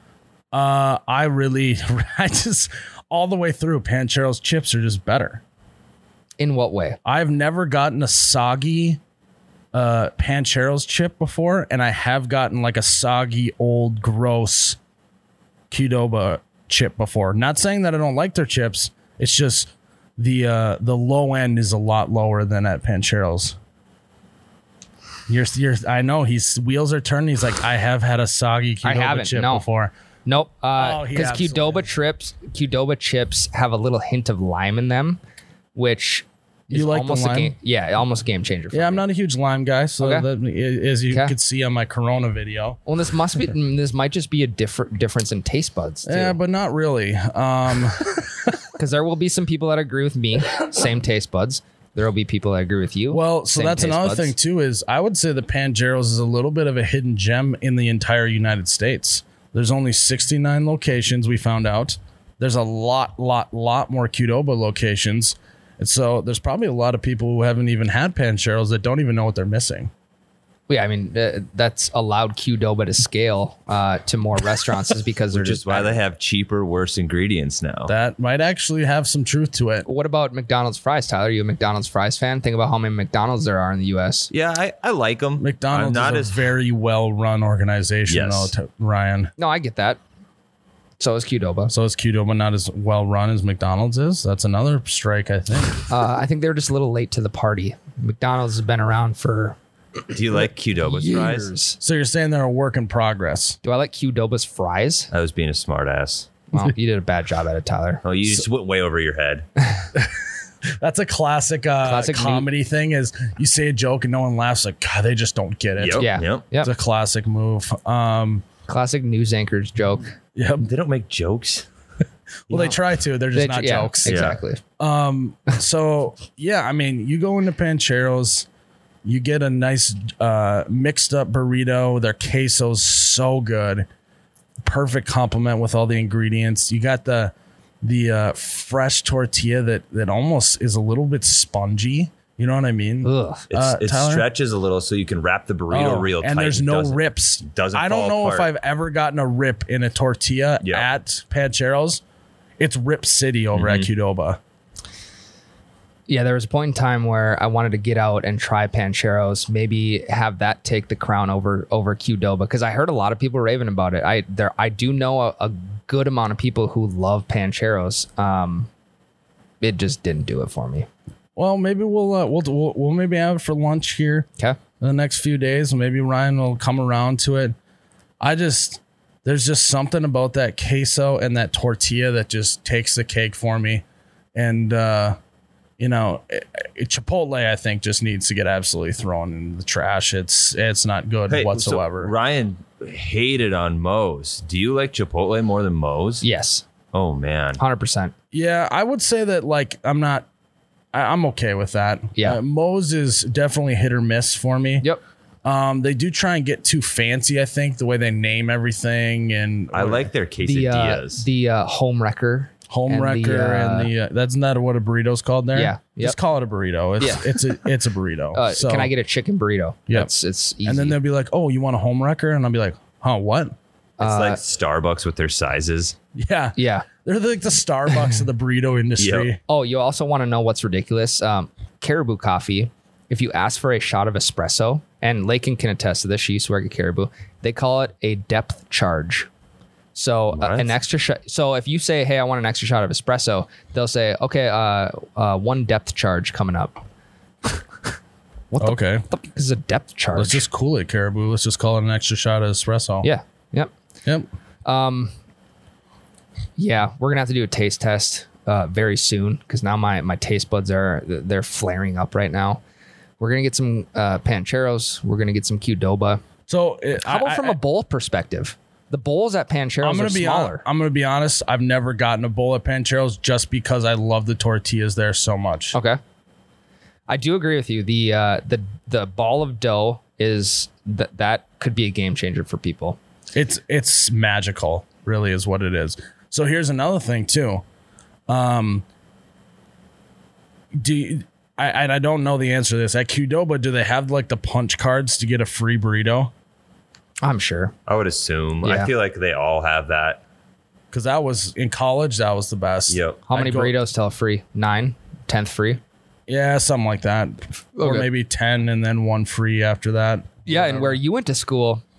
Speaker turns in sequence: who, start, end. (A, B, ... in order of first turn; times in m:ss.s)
0:00.5-0:05.4 A
0:06.4-0:07.0 B
0:07.0-0:09.0 A
0:09.7-0:14.8 A
0:15.7-0:23.6 A
0:25.3-0:29.9 A
0:28.8-0:29.6 B
0:30.3-0:35.2 B
0:30.8-0:31.9 A
0:35.8-0:39.0 B
0:36.7-0:37.5 A
0:38.7-0:42.8 A
0:40.0-0:40.3 B
0:42.9-0:46.4 B
0:46.0-0:48.2 A
0:48.8-0:54.3 B
0:53.1-1:09.9 A
1:10.7-1:16.0 B
1:15.3-1:17.9 C
1:17.9-1:19.9 A
1:19.9-1:24.3 B
1:24.3-1:26.4 C
1:25.4-1:29.3 A
1:28.1-1:28.5 C
1:29.4-1:30.0 B
1:31.0-1:31.7 B
1:31.7-1:35.9 A
1:35.9-1:40.2 B
1:40.1-1:41.5 C
1:40.8-1:41.8 B
1:41.8-1:43.6 A
1:43.6-1:45.1 B
1:45.1-1:46.3 C
1:46.5-1:48.0 B
1:48.0-1:49.5 C
1:50.0-1:50.2 A
1:50.8-1:58.4 A
1:51.8-1:52.5 B
1:55.8-1:56.4 C
1:56.0-1:56.7 B
1:58.7-2:00.1 B
2:00.4-2:00.7 A
2:00.6-2:01.7 C
2:02.5-2:08.5 A
2:03.3-2:04.6 B
2:04.1-2:04.4 C
2:09.0-2:13.9 A
2:14.6-2:24.3 A
2:23.0-2:23.5 B
2:23.5-2:28.5 C
2:25.7-2:32.0 A
2:30.6-2:30.9 C
2:32.6-2:34.4 A
2:33.5-2:33.9 C
2:36.1-2:48.7 B
2:49.6-2:50.9 B
2:51.4-2:54.3 A
2:54.8-2:57.6 A
2:58.2-3:03.8 A
3:04.4-3:05.2 A
3:05.8-3:12.1 A
3:11.3-3:16.2 C
3:16.2-3:16.6 B
3:16.9-3:17.6 C
3:17.6-3:18.1 B
3:18.3-3:20.3 A
3:20.9-3:24.9 A
3:25.4-3:30.1 A
3:29.7-3:31.3 C
3:30.4-3:33.9 B
3:32.7-3:38.9 A
3:35.5-3:36.2 B
3:37.0-3:37.6 B
3:38.3-3:41.0 B
3:40.6-3:43.6 A
3:44.0-3:44.4 B
3:44.0-3:46.0 C
3:46.2-3:49.4 A
3:46.6-3:46.9 B
3:49.0-3:49.3 C
3:49.5-3:59.3 B
4:00.0-4:06.8 B
4:00.3-4:00.8 C
4:08.5-4:10.4 B
4:08.6-4:09.0 A
4:10.2-4:13.1 A
4:13.0-4:13.7 B
4:14.6-4:15.1 B
4:16.6-4:22.6 B
4:23.2-4:26.2 B
4:26.5-4:27.6 A
4:27.0-4:30.6 B
4:29.8-4:35.8 A
4:35.7-4:36.0 B
4:37.1-4:43.0 B
4:43.4-4:47.6 A
4:48.3-4:48.8 A
4:50.8-4:56.3 A
4:57.2-4:57.7 B
4:57.9-5:00.2 C
4:58.6-4:58.9 B
5:00.9-5:03.8 A
5:02.9-5:03.2 C
5:03.3-5:05.8 B
5:06.3-5:11.0 A
5:07.8-5:08.1 B
5:10.5-5:11.8 B